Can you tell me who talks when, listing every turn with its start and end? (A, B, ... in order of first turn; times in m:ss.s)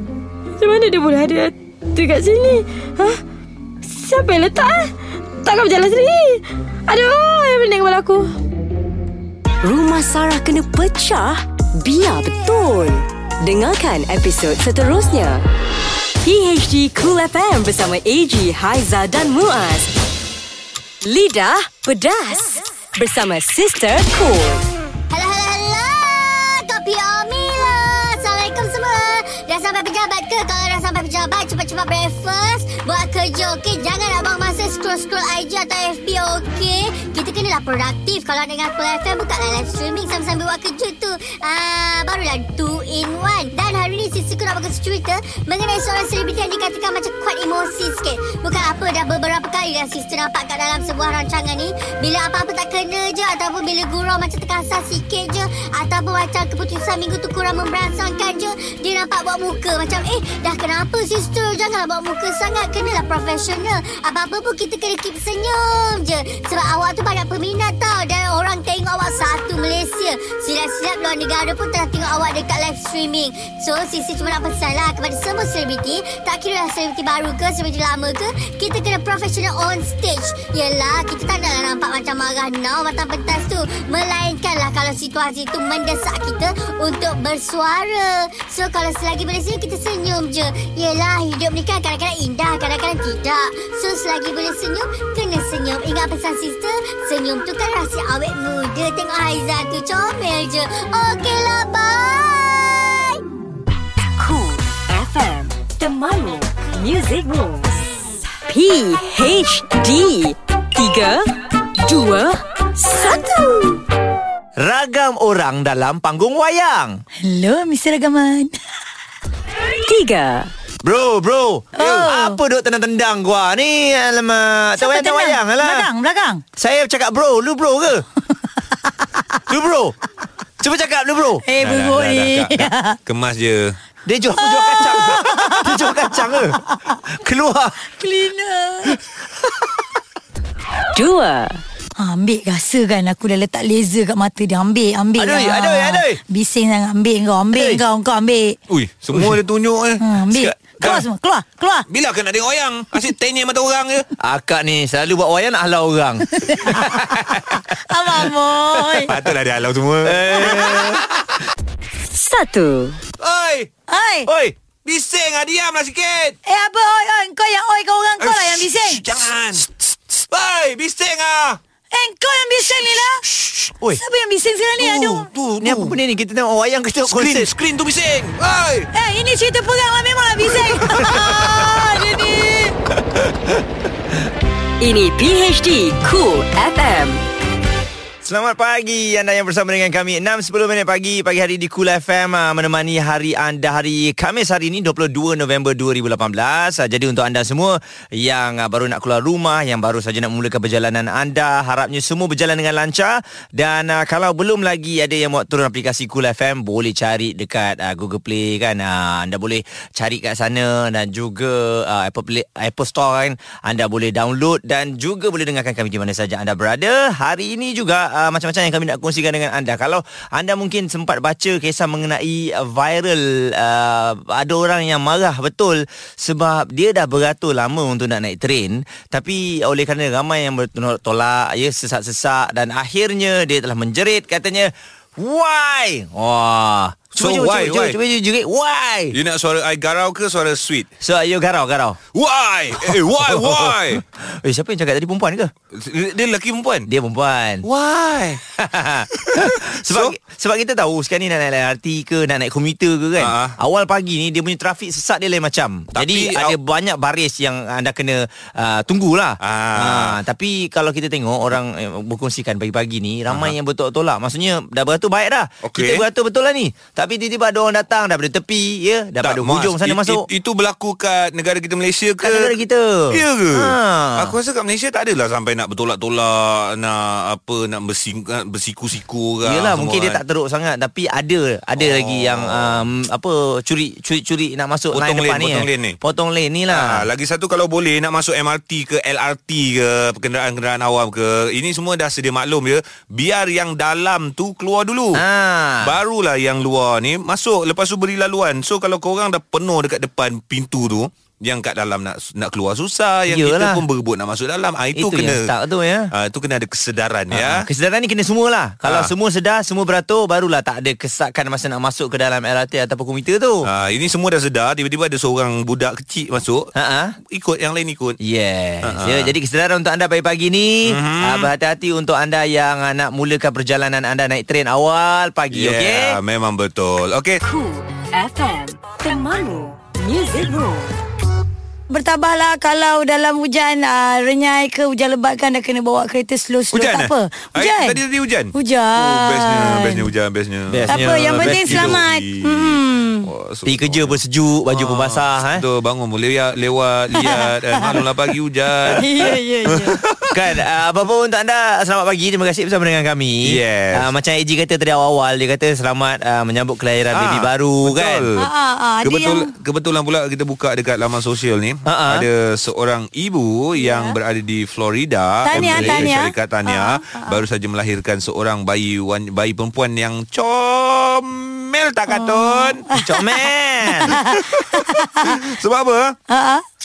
0:00.6-0:03.2 A
0:03.8-0:08.3 A
0:09.6-0:15.4 B
0:16.2-0:19.9 B
0:21.0-0:24.6 B
0:25.1-1:43.2 C
1:44.2-1:47.8 B
1:48.4-1:51.2 B
1:51.8-1:53.8 B
1:54.6-1:57.0 D
1:57.2-1:58.5 E
1:59.8-2:00.5 B
2:00.8-2:05.9 D
2:01.7-2:02.4 E
2:04.8-2:06.4 E
2:06.6-2:08.0 D
2:09.5-2:10.0 D
2:10.6-2:11.4 D
2:11.4-2:13.0 E
2:11.6-2:13.8 F
2:14.0-2:16.6 D
2:14.3-2:16.7 E
2:17.1-2:17.8 D
2:18.0-2:19.0 E
2:20.9-2:21.6 B
2:22.0-2:28.6 E
2:25.2-2:26.2 D
2:27.5-2:27.8 D
2:28.7-2:31.1 F
2:30.0-2:31.8 E
2:31.9-2:34.1 F
2:34.2-2:37.1 D
2:37.9-2:39.2 E
2:39.0-2:41.4 F
2:39.9-2:41.0 D
2:42.1-2:43.0 B
2:43.2-2:43.7 F
2:43.9-2:44.3 E
2:44.3-2:44.6 D
2:44.8-2:46.4 F
2:46.4-2:49.1 E
2:48.2-2:51.6 F
2:51.9-2:53.2 E
2:53.2-2:53.7 F
2:54.0-2:55.3 E
2:54.8-2:56.0 F
2:55.6-2:57.5 D
2:57.0-2:58.9 F
2:58.9-3:02.8 E
3:00.5-3:01.8 F
3:04.8-3:07.2 B
3:08.2-3:59.2 D
3:57.1-3:58.0 F
3:59.1-4:00.9 F
4:01.0-4:02.0 D
4:02.1-4:04.0 F
4:02.8-4:05.5 D
4:05.7-4:06.9 F
4:06.9-4:07.6 D
4:07.6-4:08.4 F
4:08.5-4:30.2 D
4:09.2-4:10.1 F
4:13.2-4:13.6 F
4:15.9-4:16.6 F
4:19.4-4:20.2 F
4:23.3-4:23.5 F
4:25.6-4:26.0 F
4:29.2-4:32.5 F
4:32.2-4:34.3 D
4:33.1-4:40.2 F
4:39.4-4:47.0 D
4:41.8-4:42.8 F
4:44.9-4:46.0 F
4:46.7-4:55.2 F
4:55.2-4:55.9 D
4:55.8-5:05.5 F
5:03.3-5:03.8 D
5:05.0-5:06.1 D
5:06.1-5:07.7 F
5:07.3-5:13.6 D
5:08.8-5:09.1 F
5:13.6-5:16.7 F
5:16.7-5:17.2 D
5:17.3-5:18.2 F
5:18.2-5:26.2 D
5:18.8-5:19.3 F
5:20.8-5:21.5 F
5:25.5-5:27.4 F
5:27.4-5:31.0 B
5:31.9-5:38.0 E
5:36.7-5:50.4 F
5:38.5-5:40.1 E
5:40.7-5:42.0 D
5:40.8-5:43.3 E
5:43.7-5:45.6 D
5:47.1-5:48.1 E
5:48.9-5:50.0 E
5:50.3-5:58.3 D
5:53.4-5:54.1 F
5:57.1-5:58.4 F
5:58.4-5:59.5 E
5:59.0-6:12.8 F
6:01.8-6:02.2 D
6:03.8-6:04.2 E
6:05.4-6:07.4 E
6:05.5-6:06.1 D
6:12.1-6:13.4 E
6:12.9-6:14.1 D
6:14.0-6:15.4 E
6:14.1-6:16.2 F
6:16.3-6:16.6 E